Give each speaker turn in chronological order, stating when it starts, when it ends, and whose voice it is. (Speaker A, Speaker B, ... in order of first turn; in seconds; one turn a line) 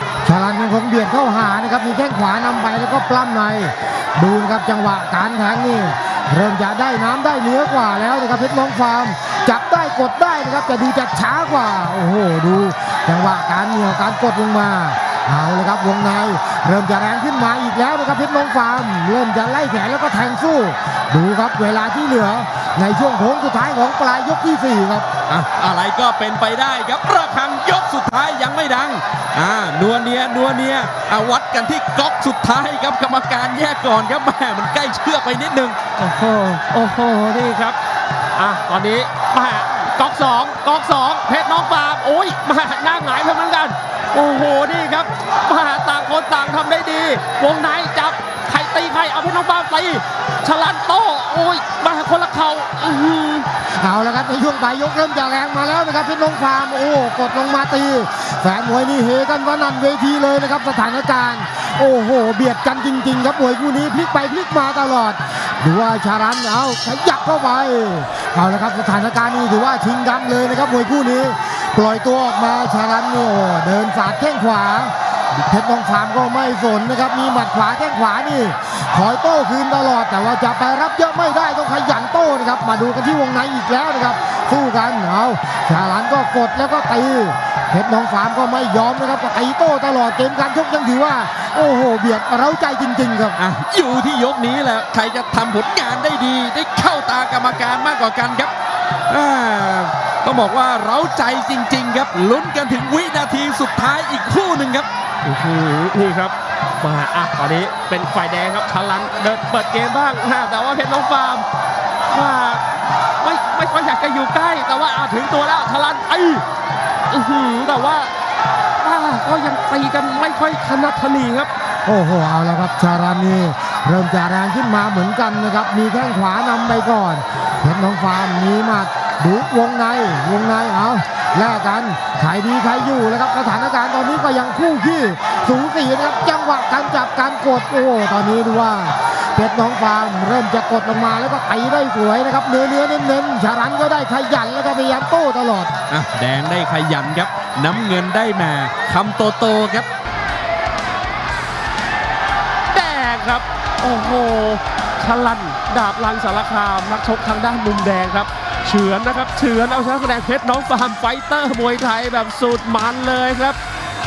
Speaker A: 0.2-25.1
Speaker B: 25.3-35.8
Speaker C: 36.0-37.8
Speaker C: 38.3-53.5
Speaker A: 53.8-93.4
Speaker B: 93.4-98.5
Speaker B: 99.1-104.9
Speaker C: 105.2-111.5
Speaker C: 112.1-112.6
Speaker C: 113.2-116.4
Speaker C: 117.1-118.1
Speaker C: 118.8-121.5
Speaker A: 121.8-145.7
Speaker B: 145.9-149.9
Speaker C: 152.7-163.6